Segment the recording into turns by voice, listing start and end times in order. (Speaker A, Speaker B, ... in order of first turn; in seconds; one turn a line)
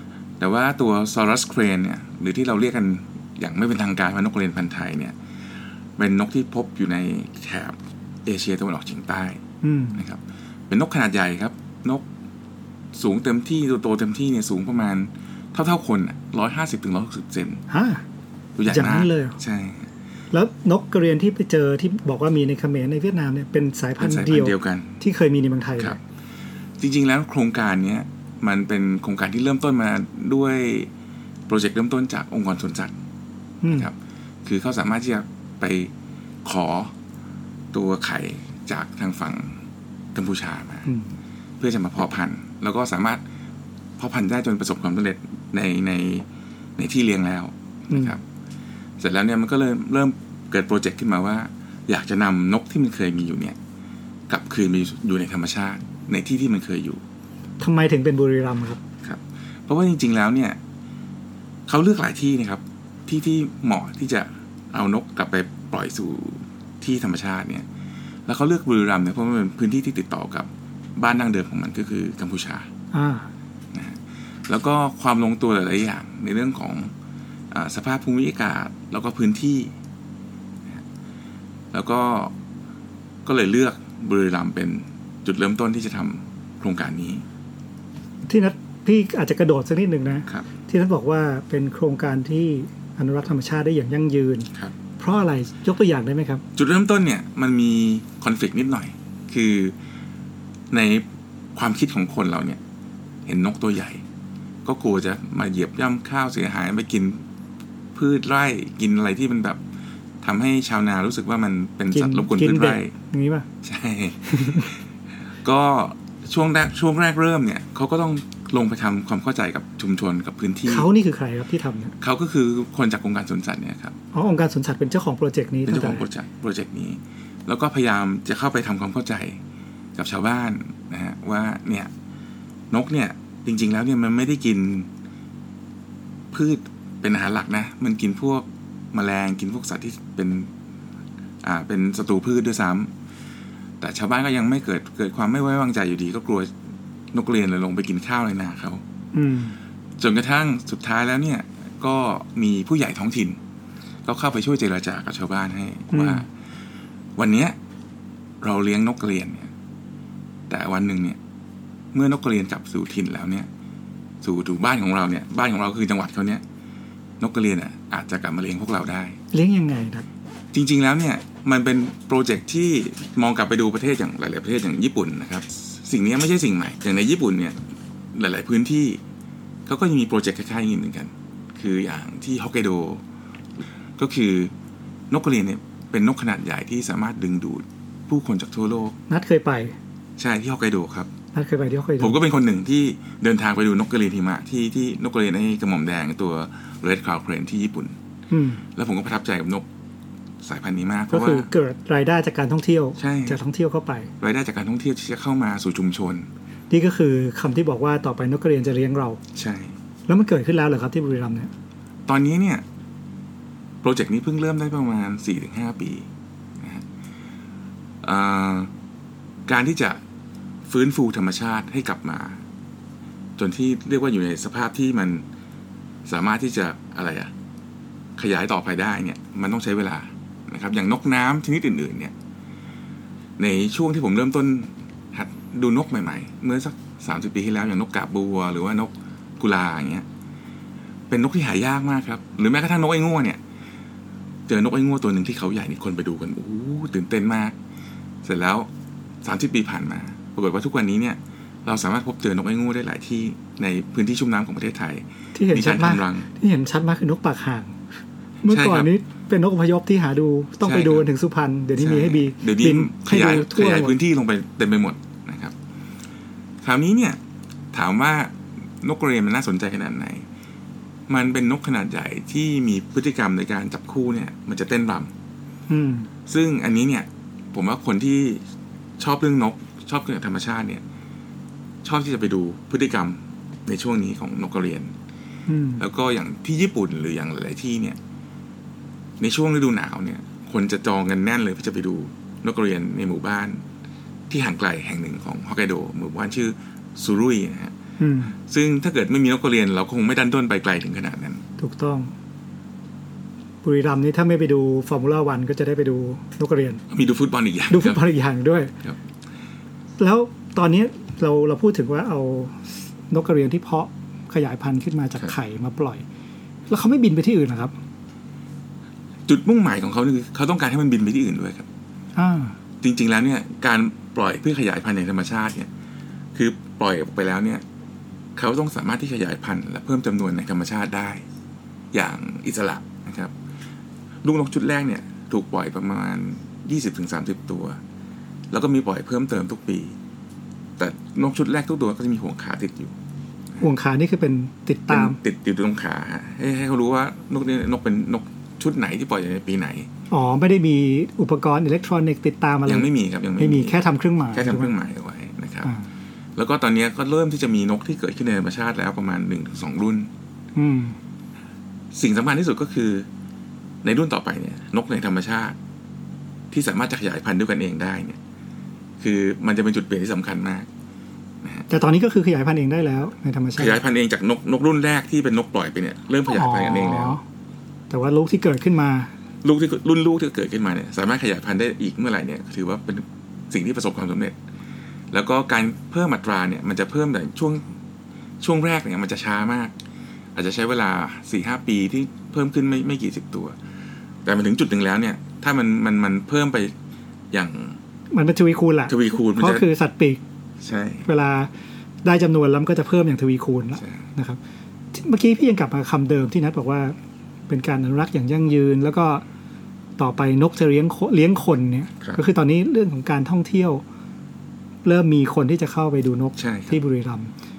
Speaker A: 0.4-5.2
Speaker A: 6.0-9.4
Speaker B: 9.6-10.0
Speaker A: 10.0-12.1
Speaker A: 12.9-17.6
Speaker B: 17.7-18.0
Speaker A: 18.6-19.9
Speaker B: 18.7-19.4
Speaker B: 20.3-26.0
Speaker A: 24.0-25.0
Speaker A: 26.8-30.9
Speaker A: 31.5-32.9
Speaker B: 33.6-33.9
Speaker A: 33.7-33.9
Speaker A: 34.5-35.9
Speaker A: 36.5-36.9
Speaker A: 37.7-39.6
Speaker A: 40.1-40.9
Speaker A: 41.6-43.2
Speaker A: 44.0-48.2
Speaker A: 49.0-53.6
Speaker A: 54.3-57.0
Speaker B: 57.6-58.8
Speaker A: 59.0-60.6
Speaker A: 61.7-67.7
Speaker A: 68.3-72.7
Speaker B: 72.9-73.3
Speaker A: 73.7-76.9
Speaker A: 77.5-79.7
Speaker A: 81.7-82.3
Speaker A: 83.2-87.2
Speaker B: 88.3-96.4
Speaker A: 96.6-99.8
Speaker A: 100.7-102.6
Speaker A: 103.3-104.0
Speaker A: 104.7-107.2
Speaker A: 108.0-109.6
Speaker A: 110.2-112.9
Speaker B: 111.9-113.5
Speaker A: 113.6-114.8
Speaker B: 114.3-114.7
Speaker A: 115.4-120.9
Speaker B: 120.7-121.9
Speaker A: 122.0-124.0
Speaker B: 124.1-126.1
Speaker A: 125.7-129.4
Speaker A: 130.0-131.9
Speaker A: 132.7-134.9
Speaker A: 136.3-140.5
Speaker A: 141.4-142.9
Speaker A: 143.8-146.5
Speaker A: 147.1-148.8
Speaker B: 149.1-149.6
Speaker A: 150.0-153.4
Speaker A: 154.1-156.3
Speaker B: 155.9-156.2
Speaker A: 157.2-157.6
Speaker A: 158.4-159.5
Speaker A: 160.5-161.2
Speaker A: 161.9-163.5
Speaker A: 164.2-166.4
Speaker A: 167.2-169.2
Speaker B: 169.3-170.1
Speaker A: 170.5-179.0
Speaker A: 179.7-183.0
Speaker A: 184.0-184.5
Speaker A: 185.1-188.9
Speaker B: 189.1-189.8
Speaker A: 190.2-191.1
Speaker B: 191.3-192.2
Speaker A: 192.0-197.9
Speaker B: 198.3-198.6
Speaker A: 198.8-199.7
Speaker A: 200.4-201.5
Speaker B: 201.1-204.1
Speaker A: 203.0-203.4
Speaker A: 204.2-206.3
Speaker B: 206.7-209.2
Speaker A: 209.3-209.8
Speaker B: 210.1-211.5
Speaker A: 212.1-212.6
Speaker A: 213.8-216.1
Speaker A: 216.6-216.8
Speaker A: 218.0-218.7
Speaker A: 219.5-220.0
Speaker A: 220.7-222.4
Speaker A: 223.4-225.2
Speaker A: 226.1-227.3
Speaker A: 228.2-232.1
Speaker A: 233.4-240.1
Speaker A: 241.1-243.4
Speaker A: 244.5-247.6
Speaker A: 248.2-248.7
Speaker A: 249.2-256.3
Speaker B: 255.3-257.8
Speaker B: 258.4-264.0
Speaker A: 258.5-258.9
Speaker A: 260.6-261.1
Speaker A: 261.8-265.5
Speaker A: 266.6-267.2
Speaker A: 267.7-270.3
Speaker A: 271.1-275.1
Speaker B: 275.7-276.1
Speaker A: 276.3-278.4
Speaker A: 279.0-280.8
Speaker A: 281.8-284.9
Speaker B: 285.5-285.8
Speaker A: 285.8-288.0
Speaker A: 289.2-293.6
Speaker A: 294.3-297.7
Speaker B: 298.0-298.4
Speaker A: 298.5-301.4
Speaker B: 301.6-302.1
Speaker B: 303.6-306.8
Speaker A: 306.9-308.0
Speaker B: 307.7-308.7
Speaker B: 310.0-316.1
Speaker B: 316.7-317.7
Speaker A: 319.3-321.7
Speaker B: 322.2-322.6
Speaker A: 322.8-325.7
Speaker A: 326.4-327.6
Speaker A: 328.4-331.2
Speaker A: 331.9-333.3
Speaker A: 334.2-337.8
Speaker A: 338.5-339.9
Speaker A: 340.8-342.9
Speaker B: 343.6-345.2
Speaker A: 344.9-349.9
Speaker B: 350.1-354.7
Speaker A: 352.7-353.8
Speaker A: 354.3-355.7
Speaker A: 356.4-360.1
Speaker B: 360.6-361.0
Speaker A: 361.9-363.1
Speaker A: 363.8-365.6
Speaker A: 366.5-368.2
Speaker A: 369.0-370.7
Speaker A: 371.4-371.7
Speaker B: 371.7-373.8
Speaker A: 373.6-377.2
Speaker B: 376.3-377.2
Speaker B: 377.9-379.1
Speaker A: 379.4-384.4
Speaker A: 385.1-387.6
Speaker A: 388.4-389.7
Speaker A: 390.4-393.6
Speaker A: 394.2-396.7
Speaker A: 397.3-397.8
Speaker B: 398.1-400.2
Speaker A: 398.9-399.6
Speaker A: 400.6-401.1
Speaker B: 401.0-401.5
Speaker B: 402.0-404.4
Speaker A: 403.8-404.0
Speaker B: 404.9-406.9
Speaker B: 407.5-409.2
Speaker B: 410.0-413.8
Speaker B: 414.9-417.3
Speaker A: 416.4-416.8